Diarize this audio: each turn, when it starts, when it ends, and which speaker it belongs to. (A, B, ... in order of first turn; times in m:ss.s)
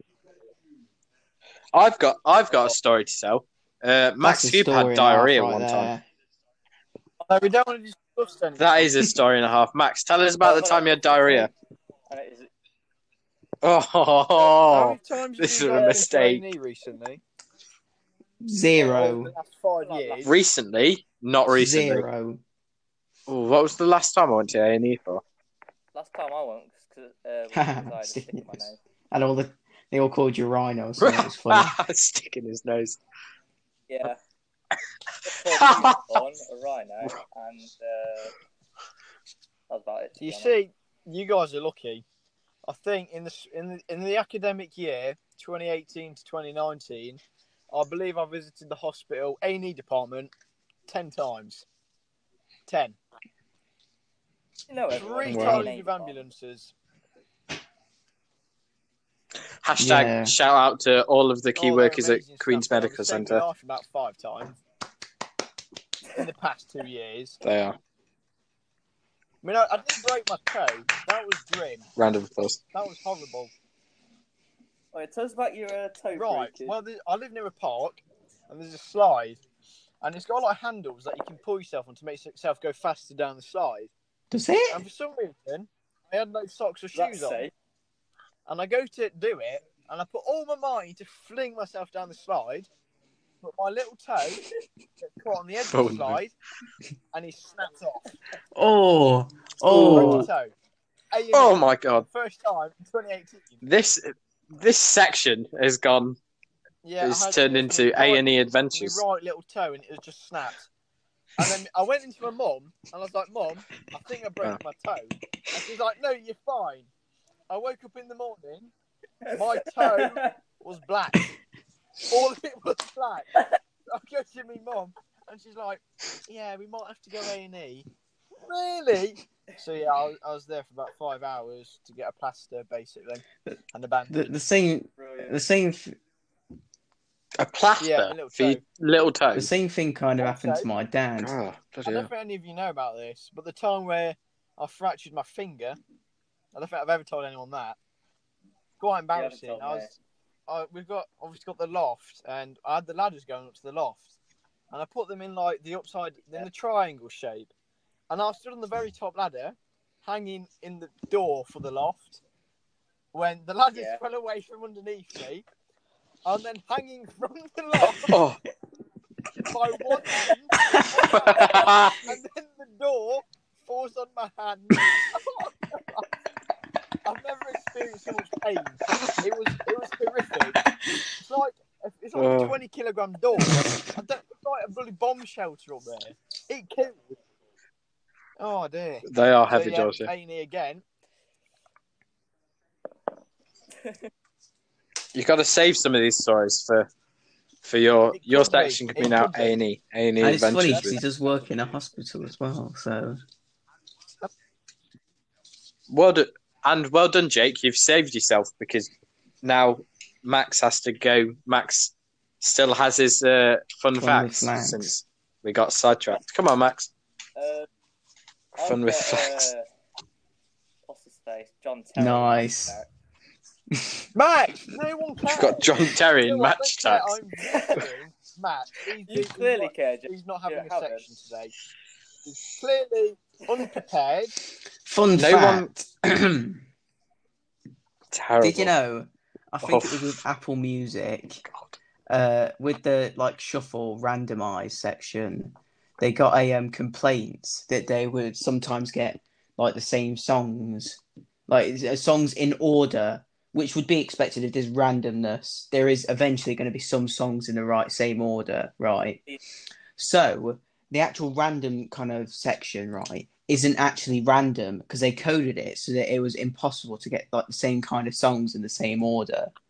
0:01.7-0:05.9 A
0:04.2-0:06.0 B
0:07.2-0:08.9 C
0:08.6-0:11.5 A
0:10.4-0:11.4 C
0:10.6-0:11.4 D
0:12.1-0:12.5 D
0:13.6-0:16.4 A
0:14.6-0:17.2 C
0:15.7-0:16.1 D
0:18.4-0:19.3 B
0:18.7-0:20.3 C
0:19.8-0:20.3 D
0:20.2-0:22.0 A
0:21.5-0:22.4 B
0:23.3-0:25.2 A
0:25.9-0:28.8 D
0:27.5-0:31.8 B
0:31.0-0:33.0 A
0:33.9-0:34.2 D
0:35.2-0:38.3 D
0:35.5-0:36.2 A
0:39.7-0:40.5 D
0:40.2-0:42.0 C
0:42.6-0:50.3 C
0:50.9-0:51.6 C
0:52.7-0:53.0 C
0:54.7-0:56.2 D
0:54.9-0:56.7 C
0:55.2-0:55.7 A
0:59.6-1:03.4 A
0:59.8-1:00.3 B
1:01.6-1:04.6 C
1:06.1-1:07.4 C
1:07.4-1:07.8 A
1:09.4-1:11.9 C
1:12.0-1:12.6 A
1:12.7-1:13.5 C
1:14.9-1:16.8 D
1:16.1-1:19.4 C
1:20.0-1:23.9 C
1:24.3-1:24.8 B
1:24.7-1:27.5 C
1:26.9-1:27.5 D
1:28.4-1:32.7 C
1:33.4-1:34.5 C
1:35.0-1:36.3 C
1:35.7-1:36.2 A
1:37.1-1:38.0 C
1:38.5-1:40.3 B
1:39.7-1:40.3 A
1:39.8-1:40.5 C
1:41.1-1:43.6 C
1:41.3-1:42.0 A
1:43.6-1:46.2 A
1:46.8-1:50.6 C
1:47.0-1:49.0 A
1:51.4-1:56.9 C
1:57.5-1:58.7 C
1:59.3-2:00.3 D
1:59.3-2:01.3 C
2:02.1-2:07.9 C
2:08.4-2:14.3 C
2:14.1-2:16.0 B
2:15.0-2:15.3 D
2:17.4-2:19.5 A
2:17.8-2:18.6 C
2:19.3-2:21.3 B
2:20.2-2:20.7 C
2:21.2-2:22.1 A
2:21.8-2:25.8 C
2:26.5-2:27.8 C
2:28.8-2:29.9 C
2:29.1-2:29.9 D
2:30.5-2:34.1 C
2:34.7-2:37.5 C
2:38.1-2:42.2 C
2:43.1-2:45.4 C
2:43.7-2:44.0 D
2:46.2-2:48.2 C
2:48.1-2:48.4 A
2:49.4-2:56.0 C
2:49.8-2:51.6 D
2:51.1-2:52.1 A
2:57.0-3:07.2 C
3:02.1-3:02.6 A
3:08.4-3:10.8 C
3:09.0-3:10.1 A
3:15.1-3:16.9 A
3:17.6-3:21.0 A
3:18.1-3:19.6 C
3:20.2-3:23.2 B
3:25.9-3:28.9 A
3:29.4-3:36.9 A
3:34.0-3:34.9 B
3:37.4-3:37.7 D
3:38.6-3:39.5 A
3:38.6-3:39.6 D
3:40.9-3:42.9 D
3:42.0-3:42.8 B
3:43.7-3:44.0 B
3:44.1-3:51.5 C
3:45.3-3:47.2 A
3:47.5-3:47.9 D
3:49.1-3:51.1 D
3:52.2-3:54.3 C
3:54.8-3:56.6 B
3:55.2-3:55.9 A
3:58.1-3:58.7 A
3:58.4-4:01.4 B
3:59.6-4:00.2 A
4:01.4-4:01.7 A
4:02.1-4:19.2 B
4:20.0-4:29.5 B